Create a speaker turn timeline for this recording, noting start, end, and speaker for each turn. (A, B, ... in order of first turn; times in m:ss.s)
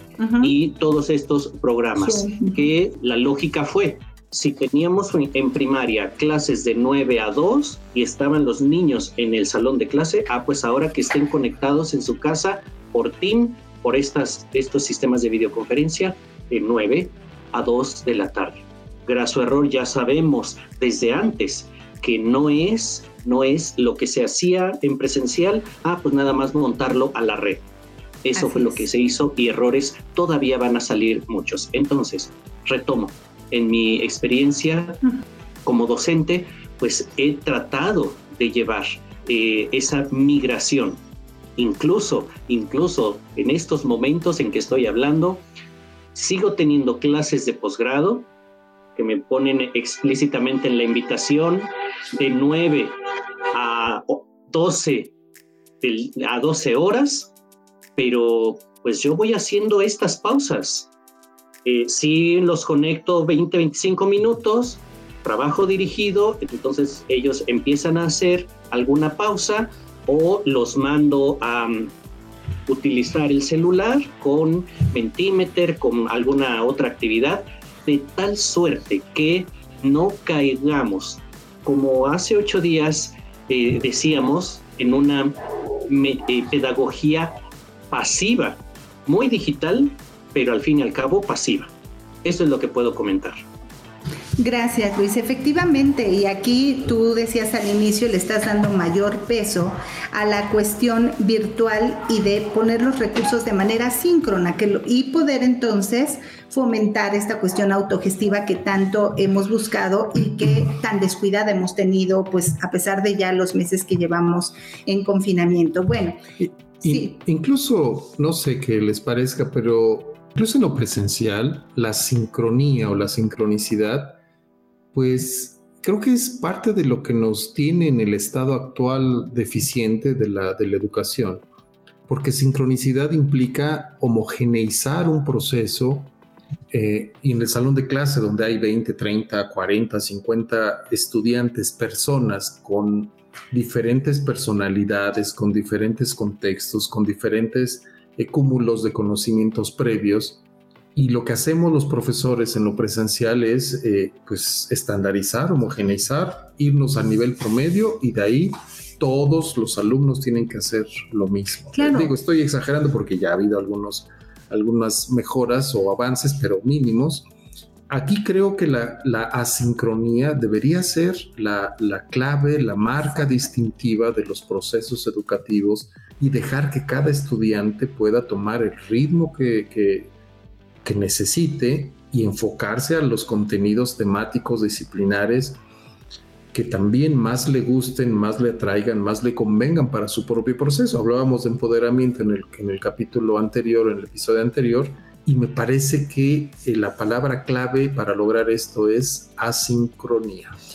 0:00.2-0:00.5 A
0:00.4-0:27.7 B
0:02.0-0:02.7 A
0:28.2-0:35.0 B
0:28.4-0:28.9 A
0:35.6-0:41.0 B
0:41.6-0:45.4 B
0:46.1-0:48.3 B
0:49.0-0:52.9 B
0:53.5-0:55.1 B
0:55.8-0:57.3 B
0:58.0-1:00.9 B
1:01.6-1:11.9 B
1:12.7-1:27.3 B
1:27.9-1:31.7 B
1:32.2-1:33.4 B
1:34.4-1:56.2 A
1:56.4-2:04.2 C
1:56.8-1:57.1 A
2:04.9-2:11.4 C
2:12.1-2:16.1 C
2:16.7-2:30.4 C
2:31.0-2:47.3 C
2:41.7-2:42.1 A
2:47.9-3:00.1 C
3:00.8-3:05.6 C
3:06.5-3:20.6 C